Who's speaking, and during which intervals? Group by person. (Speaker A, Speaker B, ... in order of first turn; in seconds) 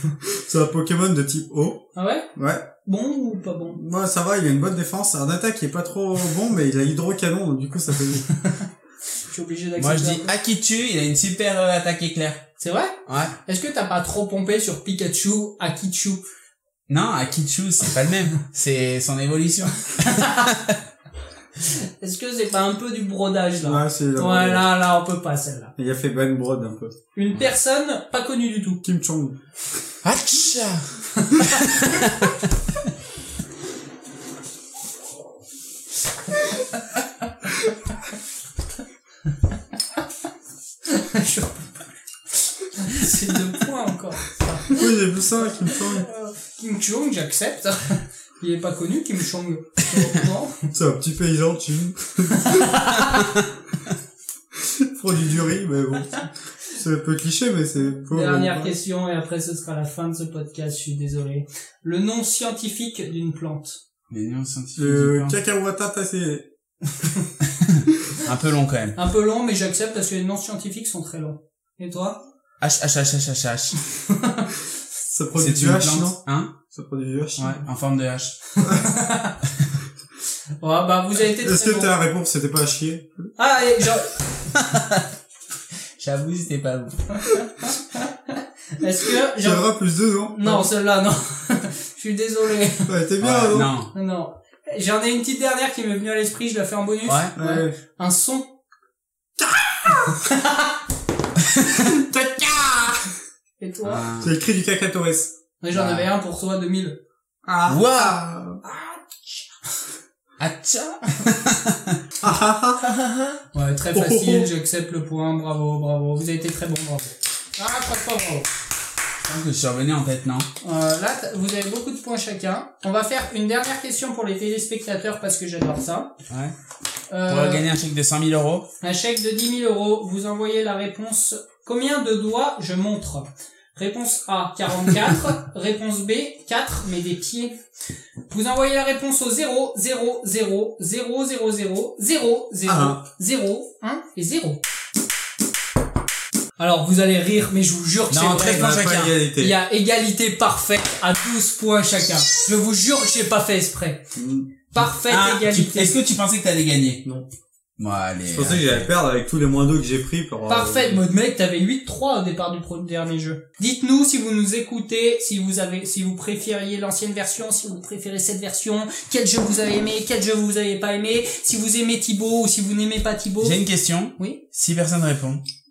Speaker A: 0.2-2.7, 3.7-8.3, 23.6-24.7, 25.8-26.9, 28.8-29.4, 44.7-46.1, 50.7-52.7, 54.5-58.7, 64.8-66.5, 75.0-76.2, 76.7-77.6, 81.3-83.1, 89.3-90.7, 92.8-93.7, 97.3-97.8, 99.4-100.2, 101.7-103.1, 104.2-105.3, 107.4-108.6, 112.2-112.8, 113.9-114.5, 142.7-143.0, 148.4-149.6, 154.1-154.5, 158.3-161.0
Speaker B: 1.9-2.3, 2.8-3.8, 9.2-10.3, 12.6-16.2, 21.6-25.7, 27.1-28.8, 31.2-31.6, 40.9-41.9, 42.4-44.9, 45.6-50.7, 52.3-53.3, 58.1-63.8, 69.0-72.2, 74.1-74.5, 78.6-79.3, 80.6-81.9, 83.4-84.2, 87.9-89.7, 90.3-92.9, 93.9-98.5, 100.2-100.8, 103.6-104.0, 105.6-107.0, 108.6-109.4, 113.5-118.5, 120.6-126.1, 127.1-127.7, 128.8-137.6, 138.3-144.6, 146.6-154.0, 154.7-156.0, 160.5-173.6
Speaker C: 9.8-12.5, 13.1-13.3, 16.9-20.8, 30.0-32.4, 64.1-65.3, 67.5-69.0, 72.6-73.8, 75.3-76.5, 77.4-78.6, 84.5-85.0, 86.0-87.4, 93.2-93.9, 97.0-97.3, 103.8-104.3, 105.7-106.0, 107.7-108.2, 110.4-112.0, 112.8-113.4, 119.2-120.5, 127.3-128.7, 148.1-148.8, 154.9-157.0, 157.8-158.8, 173.4-175.4